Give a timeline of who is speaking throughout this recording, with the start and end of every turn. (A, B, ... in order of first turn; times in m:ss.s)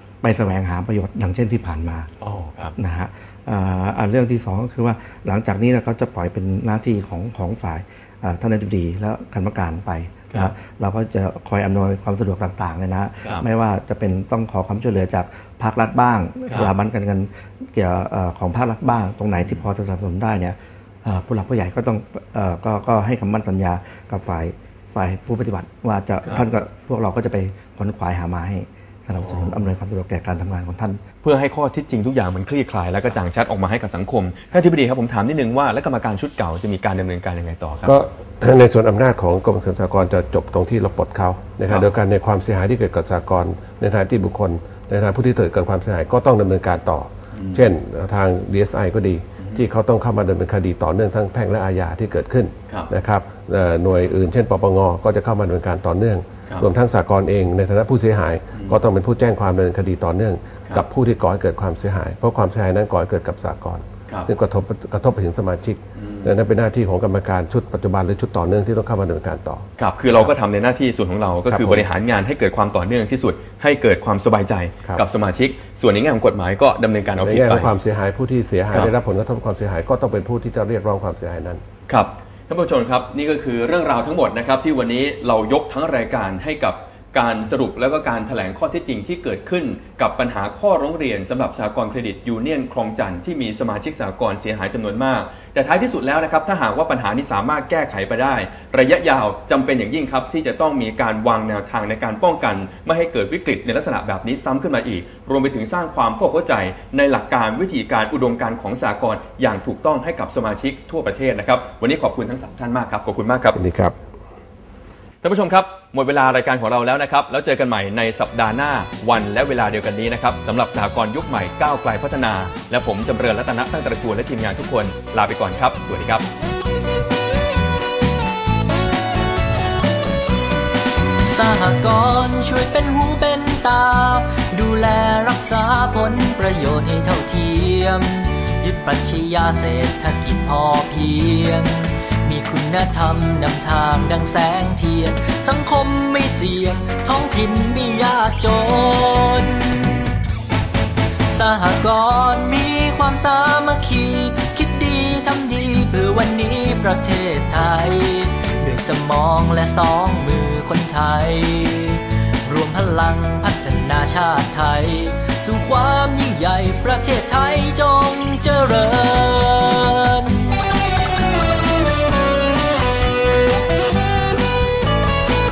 0:00.2-0:02.1 A
0:02.2-0:02.7 B
0:02.8-0:31.0 A
0:31.2-0:37.9 B
0:37.8-1:09.6 C
0:47.4-0:47.6 B
1:06.0-1:06.2 B
1:09.8-1:17.7 B
1:11.5-1:11.9 C
1:17.2-1:21.6 C
1:21.9-1:53.6 B
1:53.5-1:54.0 C
1:55.2-2:06.3 B
2:11.2-2:30.0 D
2:31.3-2:50.6 D